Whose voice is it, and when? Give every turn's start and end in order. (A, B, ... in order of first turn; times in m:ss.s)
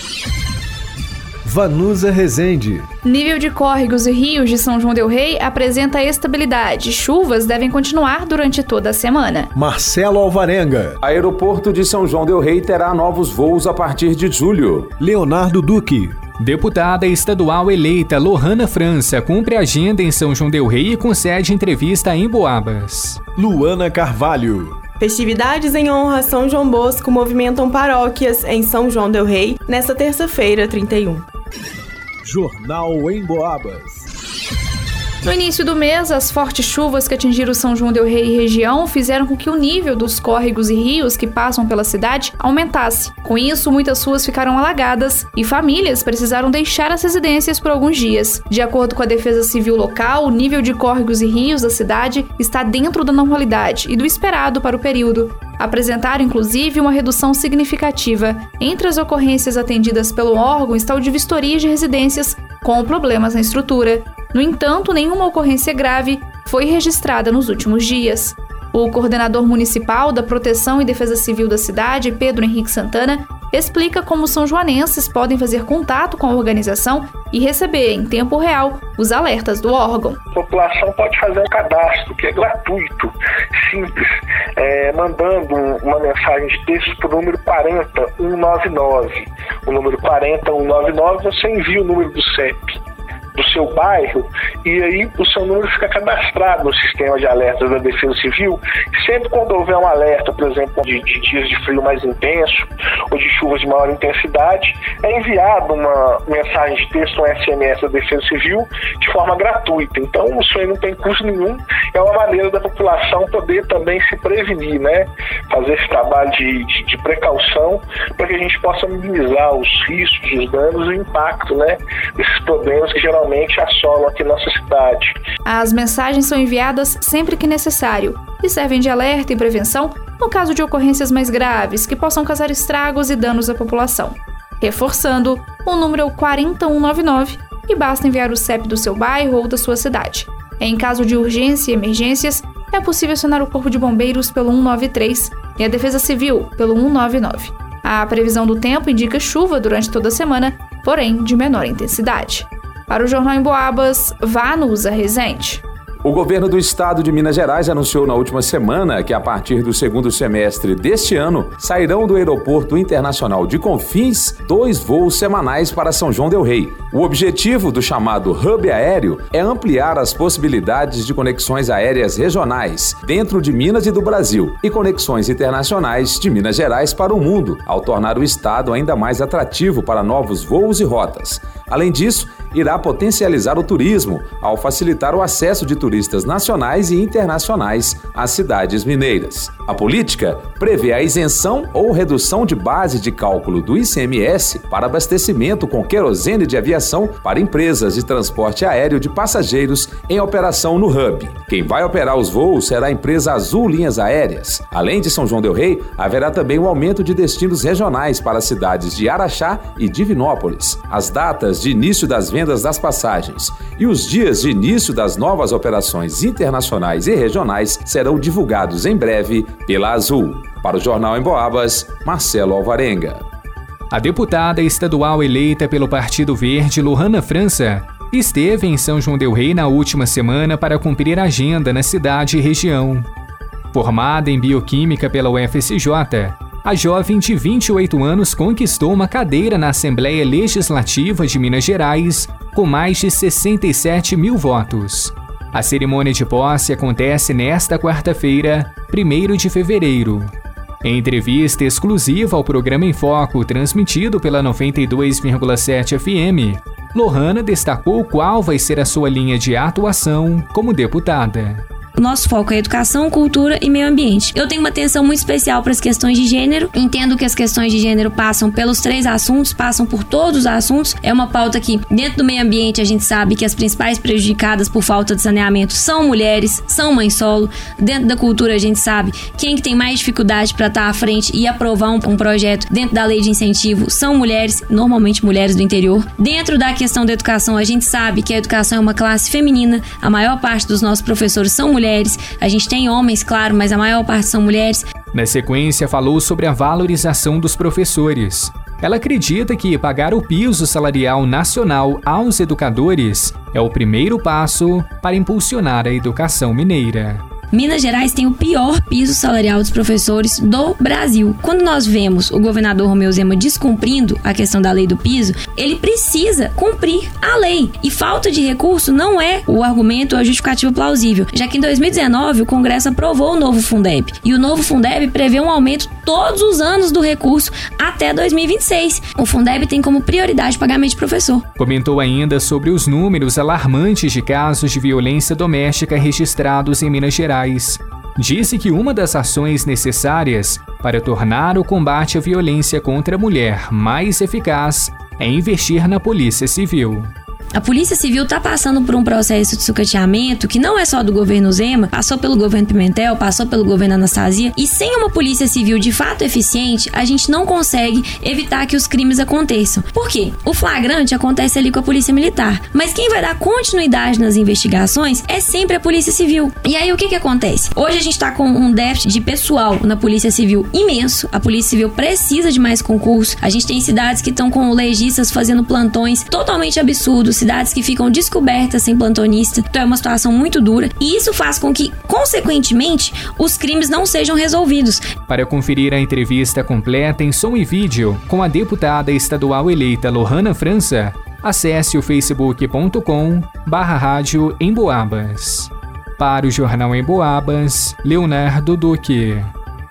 0:01.4-0:02.8 A
0:03.0-0:09.5 B
0:09.5-0:11.0 A
0:11.0-0:14.9 C
0:15.0-0:16.2 A
0:16.4-0:23.2 D
0:23.4-0:24.8 A
0:25.0-0:31.2 E
0:32.2-0:34.0 A
0:35.2-1:20.2 B
1:20.3-1:32.8 F
1:33.3-2:05.2 F
2:05.4-2:35.6 B
2:36.0-3:43.2 C
3:43.9-3:53.1 D
3:53.7-4:10.3 D
4:10.8-4:21.6 D
4:22.0-4:54.8 G
4:55.1-5:07.2 D
5:07.5-5:31.4 G
5:31.6-5:47.1 D
5:47.5-6:25.0 G
6:25.3-6:39.5 D